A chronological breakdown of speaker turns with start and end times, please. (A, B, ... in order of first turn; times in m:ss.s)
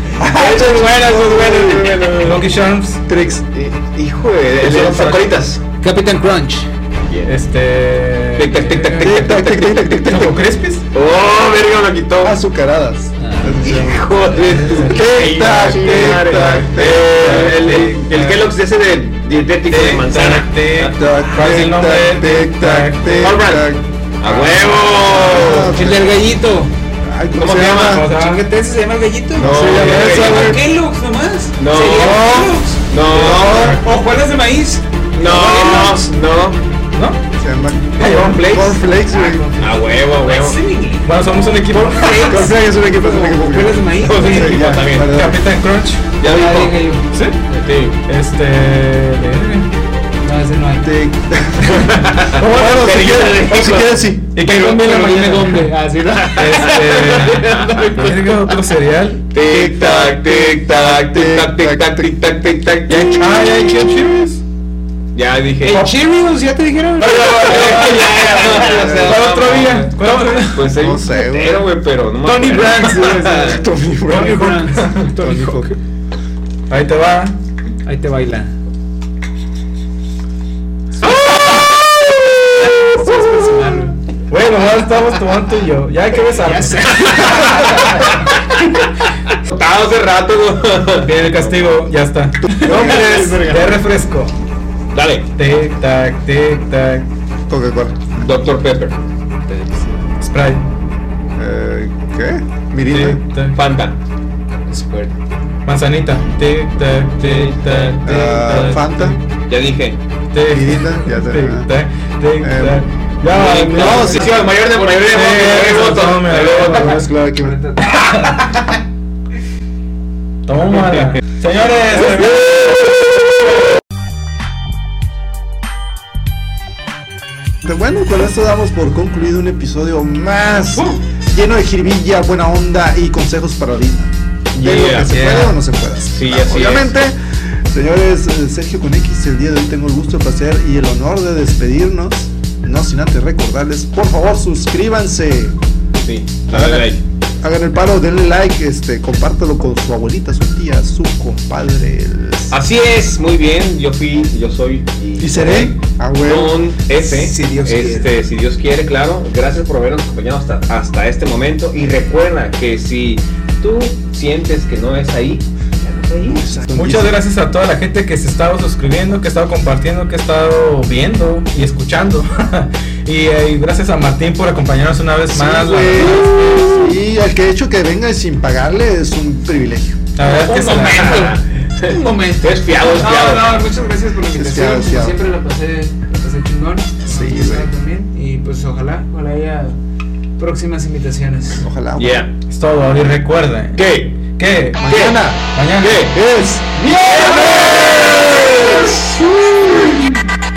0:00.2-0:02.1 A
0:00.2-0:02.4 B
0:02.2-0:03.0 C
0:03.1-0:03.5 A
0:03.5-0:05.6 B
0:04.6-0:05.3 C
0:05.8-0:06.7 D
0:07.1-0:07.3 B
0:07.2-0:10.8 C
0:08.4-0:10.0 B
0:09.0-0:10.5 A
0:10.9-0:12.4 B
0:12.2-0:17.6 A
0:13.2-0:13.6 D
0:13.6-0:21.0 B
0:14.4-0:15.0 C
0:15.7-0:16.2 C
0:16.9-0:18.5 C
0:19.7-0:23.5 C
0:20.9-0:26.2 A
0:23.2-0:23.6 B
0:24.2-0:25.7 B
0:25.5-0:26.7 D
0:27.0-0:28.1 A
0:27.4-0:28.0 B
0:27.8-0:28.4 C
0:28.1-0:36.1 D
0:29.4-0:30.5 A
0:29.4-0:30.6 B
0:29.4-0:30.6 C
0:31.6-0:33.8 B
0:32.0-0:32.5 A
0:33.0-0:33.8 A
0:33.1-0:33.8 C
0:35.1-0:36.6 B
0:36.9-0:37.2 C
0:37.3-0:39.5 A
0:38.0-0:38.8 C
0:38.0-0:38.6 B
0:39.1-0:44.7 D
0:39.6-0:40.6 B
0:41.0-0:42.5 C
0:42.2-0:45.4 A
0:44.0-0:45.1 B
0:45.0-0:46.0 C
0:46.2-0:46.8 B
0:46.2-0:47.6 D
0:47.1-0:47.4 C
0:47.6-0:48.0 B
0:48.0-0:49.7 C
0:50.2-0:50.9 D
0:50.8-0:54.3 A
0:51.7-0:54.0 B
0:52.4-0:53.7 C
0:54.3-0:55.7 C
0:54.4-0:58.5 D
0:56.4-0:59.3 C
0:57.3-0:57.6 B
0:59.3-1:03.8 B
0:59.4-1:02.1 A
1:03.1-1:04.4 C
1:05.1-1:05.9 B
1:05.6-1:09.4 D
1:07.0-1:10.6 C
1:07.1-1:13.6 B
1:08.5-1:09.3 A
1:10.0-1:10.6 D
1:10.6-1:11.7 A
1:12.2-1:15.7 D
1:13.5-1:15.7 A
1:14.1-1:15.1 C
1:16.7-1:17.4 C
1:17.8-1:18.5 D
1:21.0-1:21.6 D
1:22.6-1:24.0 D
1:24.3-1:27.6 C
1:26.3-1:28.3 D
1:29.3-1:31.6 B
1:31.0-1:34.3 C
1:32.4-1:33.2 A
1:32.6-1:33.8 D
1:34.9-1:35.3 B
1:35.4-1:37.1 C
1:37.5-1:38.1 A
1:38.1-1:39.0 B
1:39.5-1:40.0 D
1:40.2-1:40.6 C
1:41.4-1:43.2 A
1:42.9-1:43.6 C
1:43.5-1:44.0 B
1:44.7-1:45.2 D
1:45.6-1:49.2 C
1:47.2-1:48.8 B
1:48.0-1:49.2 A
1:49.5-1:50.0 B
1:50.3-1:57.1 C
1:50.5-1:51.7 A
1:52.4-1:52.8 A
1:53.3-1:56.9 B
1:53.7-1:54.5 A
1:54.4-1:55.1 D
1:56.4-1:57.6 A
1:57.4-1:58.6 D
2:00.5-2:02.8 C
2:07.6-2:25.6 A
2:14.5-2:15.3 B
2:15.1-2:15.6 C
2:16.1-2:16.9 B
2:26.0-2:27.0 B
2:26.5-2:32.6 A
2:32.5-2:46.5 B
2:35.2-2:36.7 A
2:36.9-2:38.1 D
2:46.2-2:47.2 A
2:46.7-2:56.8 C
2:55.3-3:00.1 A
3:00.2-3:01.3 C
3:00.2-3:09.8 D
3:00.7-3:03.6 B
3:04.3-3:05.2 A
3:07.1-3:07.7 A
3:10.4-3:11.6 D
3:11.6-3:12.3 A
3:12.0-3:12.3 B
3:12.5-3:16.1 C
3:13.8-3:14.2 B
3:14.8-3:15.4 A
3:14.9-3:15.2 B
3:15.8-3:16.1 B
3:16.0-3:20.0 A
3:16.8-3:20.0 B
3:16.9-3:17.7 D